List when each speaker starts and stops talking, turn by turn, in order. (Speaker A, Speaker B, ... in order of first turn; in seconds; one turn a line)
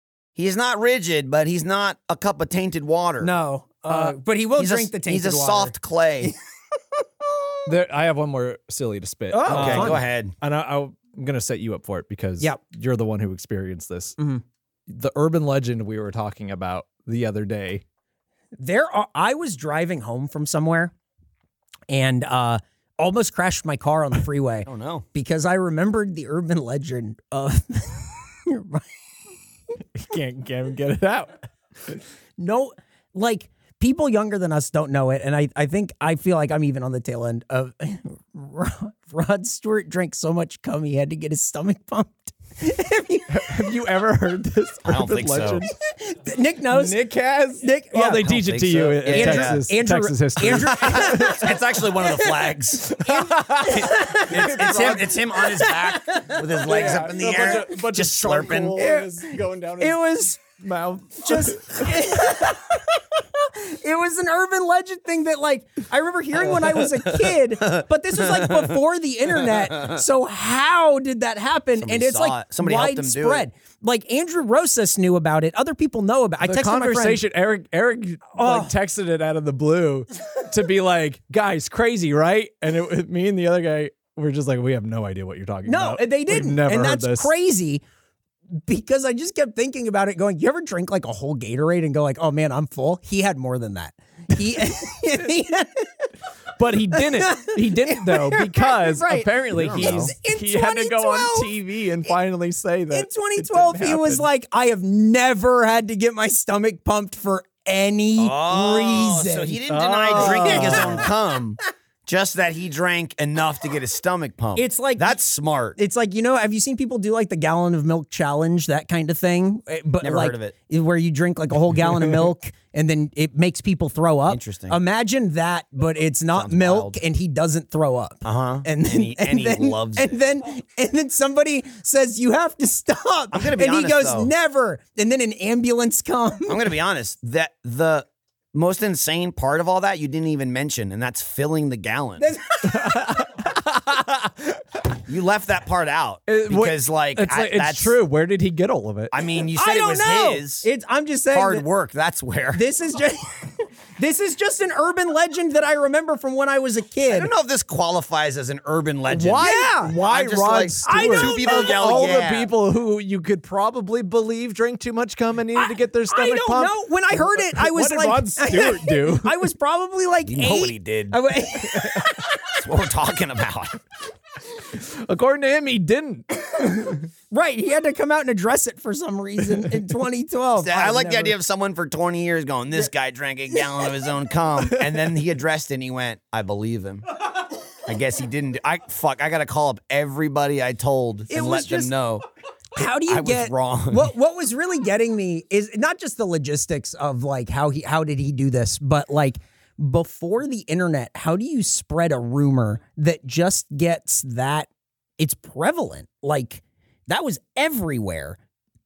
Speaker A: 0.3-3.3
Speaker B: 3.2-6.4
Speaker C: 3.9-4.2
Speaker A: 4.6-6.3
Speaker B: 7.0-7.6
Speaker C: 7.7-14.1
Speaker B: 9.3-10.0
Speaker A: 9.5-10.3
Speaker B: 14.2-14.4
Speaker C: 14.9-17.8
Speaker B: 18.6-20.9
Speaker B: 21.9-28.9
Speaker A: 24.6-25.0
Speaker C: 29.9-32.0
Speaker B: 32.4-43.6
Speaker C: 43.3-45.7
Speaker A: 44.8-45.6
Speaker B: 45.9-48.3
Speaker C: 46.7-51.5
Speaker A: 48.2-49.6
Speaker B: 49.1-57.0
Speaker A: 50.5-53.0
Speaker C: 53.0-55.2
Speaker A: 53.7-58.8
Speaker C: 56.6-62.4
Speaker B: 58.8-60.4
Speaker B: 61.2-77.2
Speaker A: 67.0-68.8
Speaker A: 69.5-70.0
Speaker A: 71.8-73.5
Speaker C: 76.4-87.3
Speaker B: 78.3-78.7
Speaker B: 85.7-87.8
Speaker B: 88.5-96.1
Speaker C: 96.6-104.2
Speaker B: 96.9-101.5
Speaker A: 99.5-100.1
Speaker B: 102.9-111.1
Speaker A: 108.2-115.8
Speaker C: 109.7-111.0
Speaker B: 114.5-115.2
Speaker B: 115.8-136.6
Speaker A: 120.0-120.5
Speaker A: 124.3-124.8
Speaker A: 126.3-127.0
Speaker A: 128.2-130.2
Speaker A: 133.3-134.3
Speaker A: 136.5-142.3
Speaker B: 142.2-143.1
Speaker C: 142.7-144.6
Speaker A: 145.1-148.0
Speaker C: 146.3-149.1
Speaker A: 149.1-150.7
Speaker B: 149.5-151.7
Speaker A: 151.3-152.6
Speaker B: 152.5-157.3
Speaker A: 157.1-162.5
Speaker C: 159.1-169.5
Speaker B: 159.3-159.9
Speaker B: 160.8-162.2
Speaker B: 165.5-172.5
Speaker A: 170.2-171.2
Speaker A: 172.5-173.8
Speaker C: 174.7-177.0
Speaker B: 177.3-181.3
Speaker A: 180.6-187.1
Speaker A: 187.8-192.2
Speaker B: 191.3-191.9
Speaker B: 192.7-208.4
Speaker A: 192.8-194.1